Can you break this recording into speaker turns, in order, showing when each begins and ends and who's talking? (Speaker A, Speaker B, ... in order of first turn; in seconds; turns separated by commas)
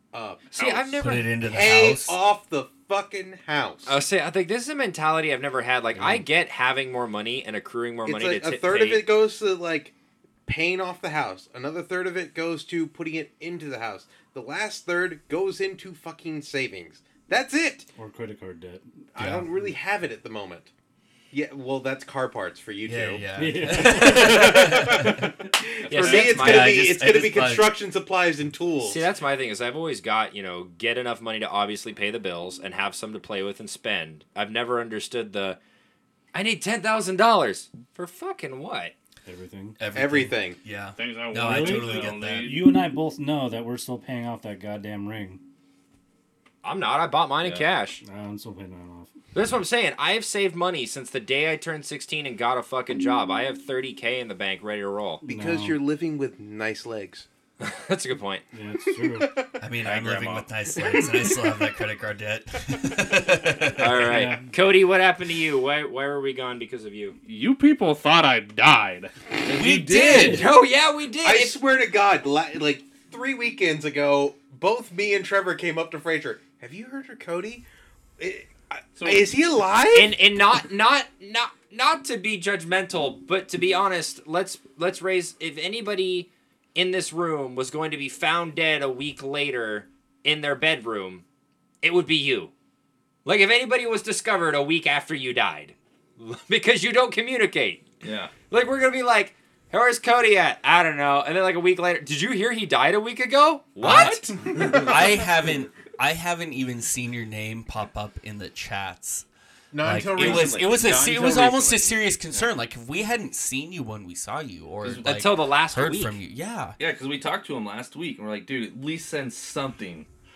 Speaker A: 0.1-0.7, Speaker B: 0.5-0.9, Speaker C: 0.5-1.2, Speaker D: 1.0-2.2, Speaker A: 1.2-4.0, Speaker C: 3.9-9.1, Speaker E: 6.0-6.2, Speaker A: 8.0-9.9, Speaker A: 10.4-17.9, Speaker E: 17.9-18.9, Speaker A: 19.1-20.7, Speaker D: 19.2-19.5, Speaker A: 21.3-29.0, Speaker D: 22.8-25.3, Speaker E: 23.4-25.1, Speaker C: 25.9-26.8, Speaker B: 25.9-26.3, Speaker D: 26.0-27.7, Speaker C: 28.8-35.6, Speaker C: 36.3-38.9, Speaker E: 39.2-39.8, Speaker D: 39.8-42.5, Speaker A: 39.9-40.6, Speaker B: 41.0-42.7, Speaker E: 41.4-45.4, Speaker C: 46.6-48.0, Speaker F: 47.4-47.7, Speaker E: 48.0-49.1, Speaker C: 49.3-55.2, Speaker A: 55.2-57.3, Speaker E: 55.2-55.8, Speaker C: 57.6-58.4, Speaker E: 58.5-59.3, Speaker D: 59.6-64.3, Speaker C: 60.0-60.4, Speaker C: 63.8-67.2, Speaker E: 64.0-64.5, Speaker B: 67.2-69.1, Speaker D: 69.5-70.5, Speaker C: 70.0-71.6, Speaker A: 71.2-77.6, Speaker A: 78.2-80.2, Speaker B: 79.0-79.3, Speaker C: 79.9-91.2, Speaker C: 91.8-92.5, Speaker C: 93.2-97.8, Speaker F: 98.0-98.3, Speaker C: 98.5-104.2, Speaker D: 103.8-109.2, Speaker A: 103.8-105.2, Speaker A: 109.7-112.0, Speaker D: 109.8-116.8, Speaker C: 110.2-110.5, Speaker F: 114.8-115.2, Speaker C: 115.0-116.2, Speaker F: 116.8-120.1